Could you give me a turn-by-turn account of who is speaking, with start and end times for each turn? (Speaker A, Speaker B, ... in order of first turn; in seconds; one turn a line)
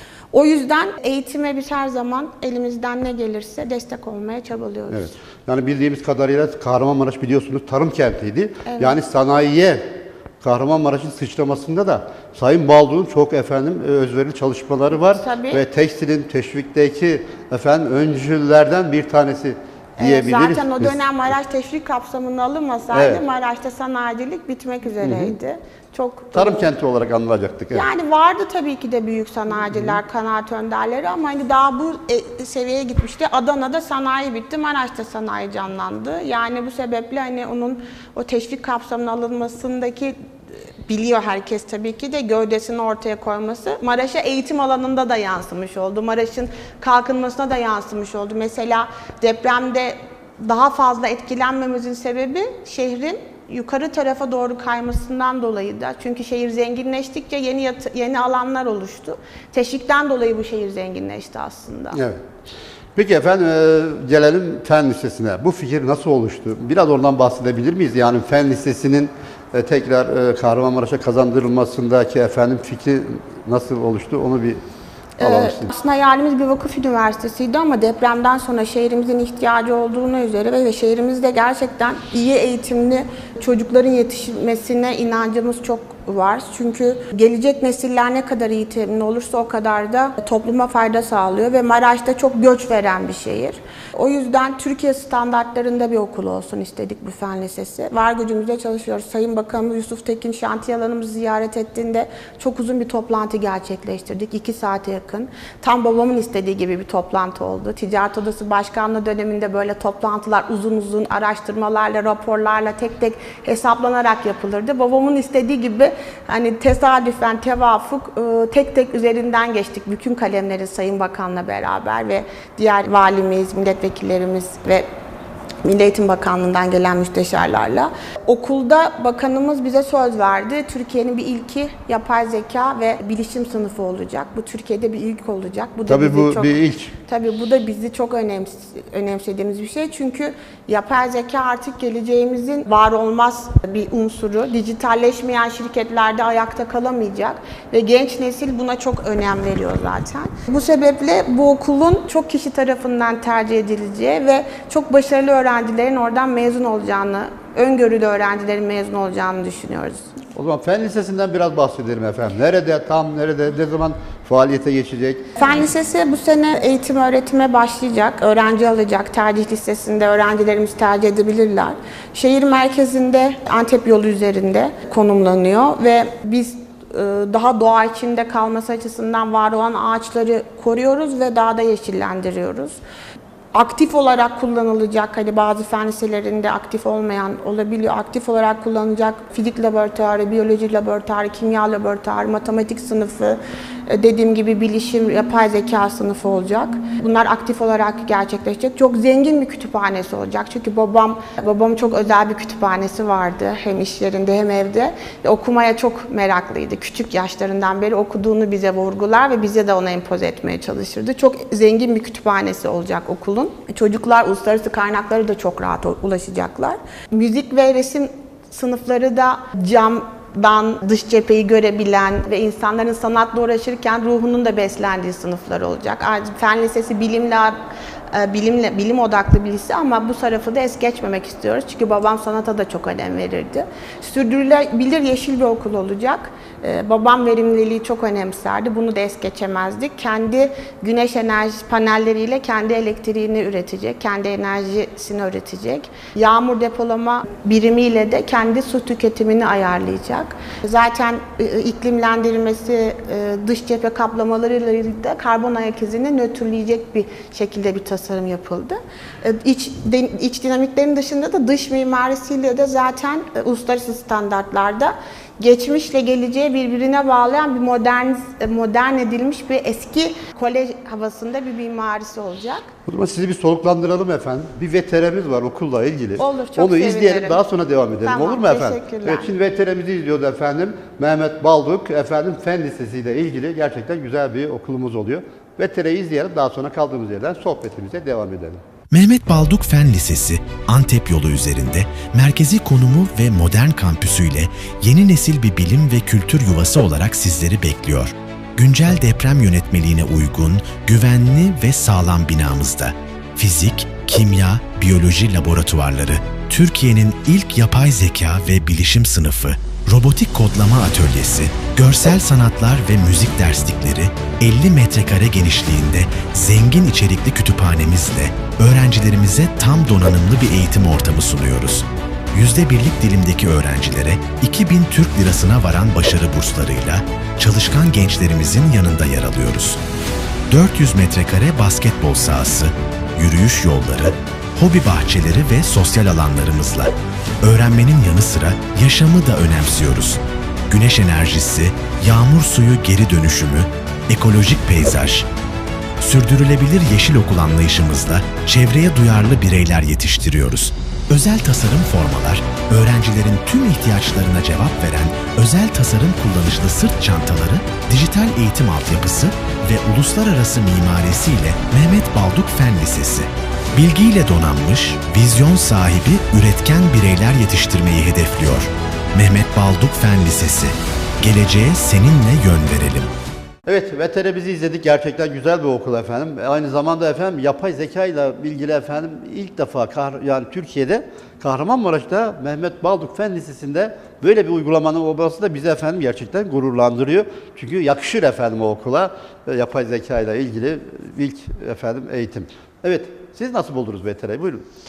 Speaker A: 0.3-5.1
Speaker B: 4.9-21.0
Speaker A: 8.6-9.0
Speaker A: 14.9-15.6
Speaker A: 20.0-26.7
Speaker B: 22.9-23.2
Speaker B: 25.0-25.3
Speaker B: 26.3-27.9
Speaker A: 27.7-40.1
Speaker B: 29.7-30.0
Speaker A: 40.9-62.0
Speaker B: 61.9-62.2
Speaker B: 63.0-74.6
Speaker A: 75.2-124.8
Speaker B: 75.2-75.7
Speaker A: 125.6-160.1
Speaker B: 135.9-136.9
Speaker B: 160.3-165.3
Speaker A: 165.4-182.8
Speaker A: 183.5-227.6
Speaker A: 228.1-272.6
Speaker B: 272.9-288.6
Speaker A: 276.2-277.4
Speaker A: 278.0-279.3
Speaker C: 288.9-329.8
Speaker C: 330.5-345.3
Speaker C: 346.0-373.1
Speaker B: 373.6-394.6